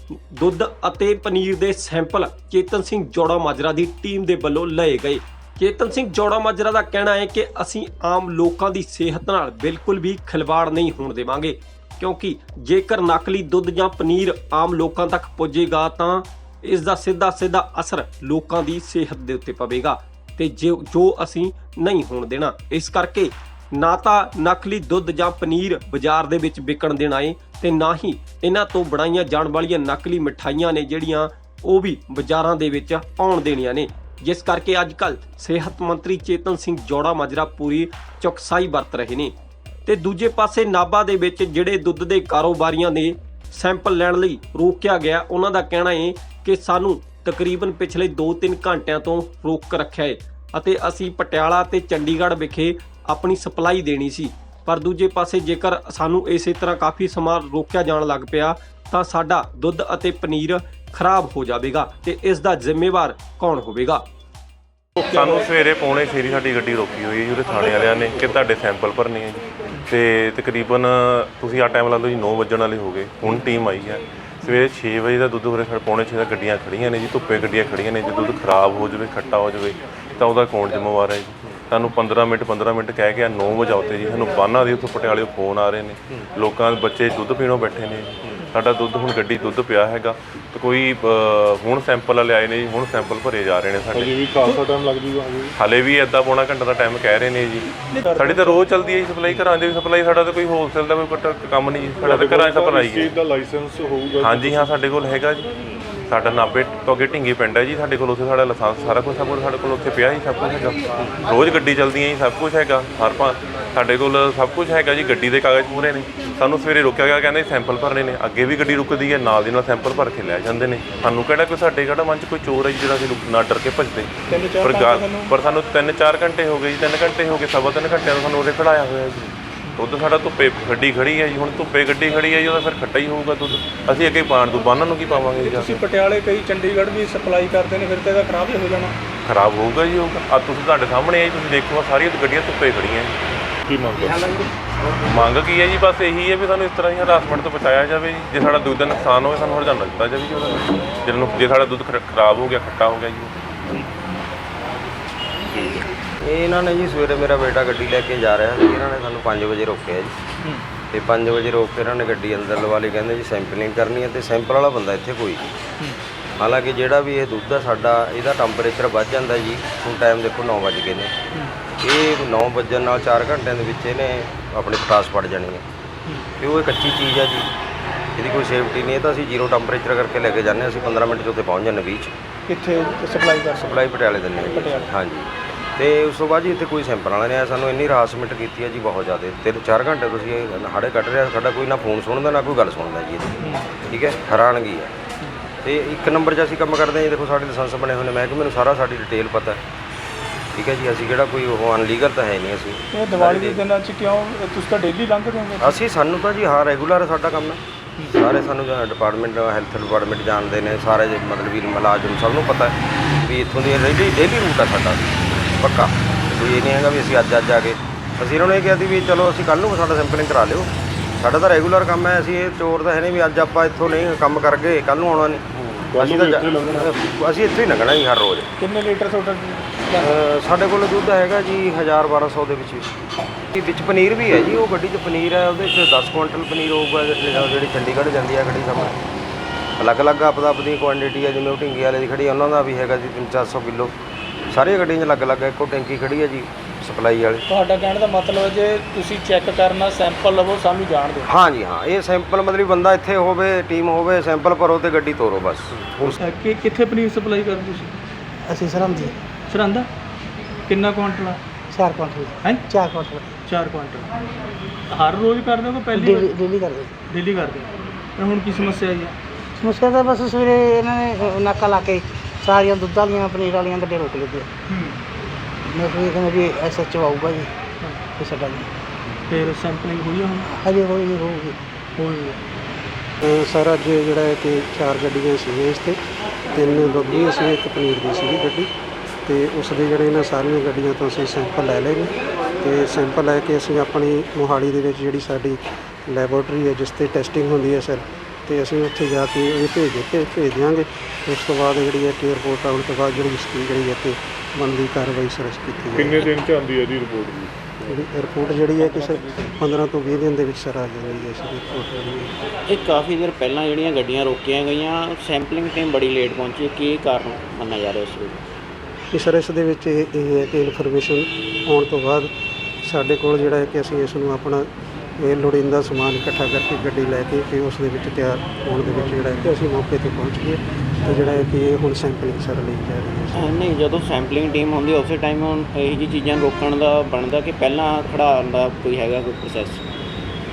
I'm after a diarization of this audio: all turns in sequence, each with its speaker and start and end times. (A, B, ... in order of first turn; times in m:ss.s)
0:00.3-0:39.3 A
0:39.8-1:04.0 A
1:05.0-1:34.3 B
1:05.1-1:05.4 C
1:33.9-1:35.6 D
1:35.6-1:43.1 B
1:37.9-1:38.6 C
1:42.0-1:44.7 D
1:44.2-1:45.5 B
1:46.1-2:15.8 B
2:04.3-2:05.3 C
2:15.4-2:19.0 C
2:19.2-2:23.2 B
2:23.7-2:24.5 D
2:25.0-2:33.4 B
2:36.2-2:40.1 E
2:40.9-2:45.5 E
2:46.4-2:51.1 E
2:51.8-2:55.6 E
2:56.4-2:57.5 E
2:58.2-3:02.1 E
3:02.5-3:03.8 C
3:03.5-3:13.4 E
3:04.4-3:04.9 C
3:13.4-3:13.7 C
3:13.9-3:14.9 E
3:15.6-3:19.6 E
3:20.5-3:23.6 E
3:22.9-3:25.7 C
3:25.6-3:48.5 E
3:45.9-3:46.9 D
3:48.6-3:50.1 C
3:50.0-3:52.9 E
3:53.5-3:59.0 E
3:59.8-4:03.9 E
4:04.5-4:07.4 E
4:07.5-4:11.3 C
4:11.2-4:16.2 E
4:16.2-4:17.9 C
4:18.4-4:19.2 F
4:19.5-4:19.9 C
4:20.7-4:21.4 C
4:21.7-4:23.3 F
4:23.4-4:24.1 C
4:24.9-4:26.3 C
4:25.9-4:26.9 F
4:27.1-4:29.2 C
4:29.6-4:34.5 F
4:34.7-4:35.0 C
4:35.7-4:37.5 F
4:38.1-4:38.7 F
4:39.3-4:40.5 C
4:40.4-4:41.6 F
4:42.0-4:42.4 C
4:43.2-4:46.0 G
4:46.5-4:48.7 G
4:49.2-5:06.3 G
5:05.9-5:07.5 D
5:07.8-5:12.3 G
5:12.6-5:18.4 H
5:19.1-5:22.3 G
5:22.8-5:24.6 G
5:25.2-5:33.5 G
5:33.3-5:39.8 H